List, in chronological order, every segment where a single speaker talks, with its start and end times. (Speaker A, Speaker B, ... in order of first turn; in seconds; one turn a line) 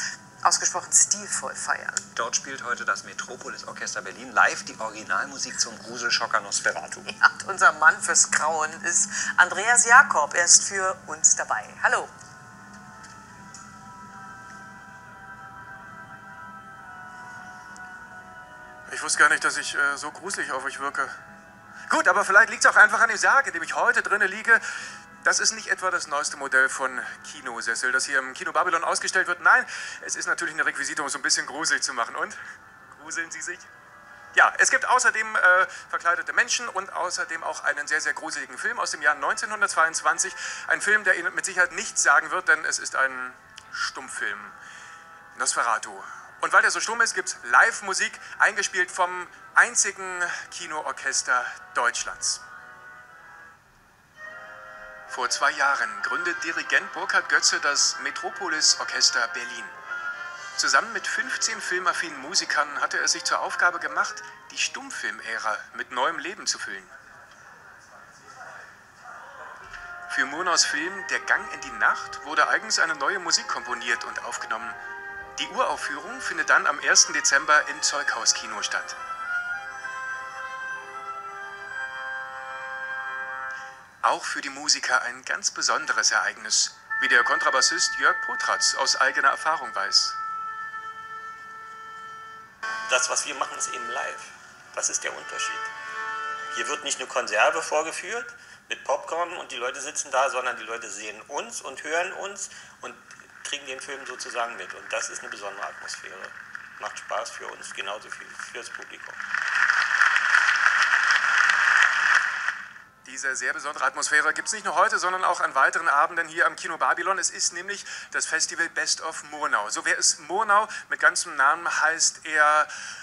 Speaker A: 0.4-2.1
Speaker B: 2.1-7.1
Speaker A: 7.1-12.1
Speaker C: 18.9-21.1
Speaker C: 21.9-24.6
Speaker C: 25.2-33.7
Speaker C: 34.3-44.6
Speaker C: 45.4-52.4
Speaker C: 55.1-59.7
Speaker C: 60.6-66.9
Speaker C: 70.1-74.8
Speaker C: 75.4-79.0
Speaker C: 84.0-90.2
Speaker D: 92.9-95.7
Speaker D: 96.5-109.2
Speaker C: 113.1-122.7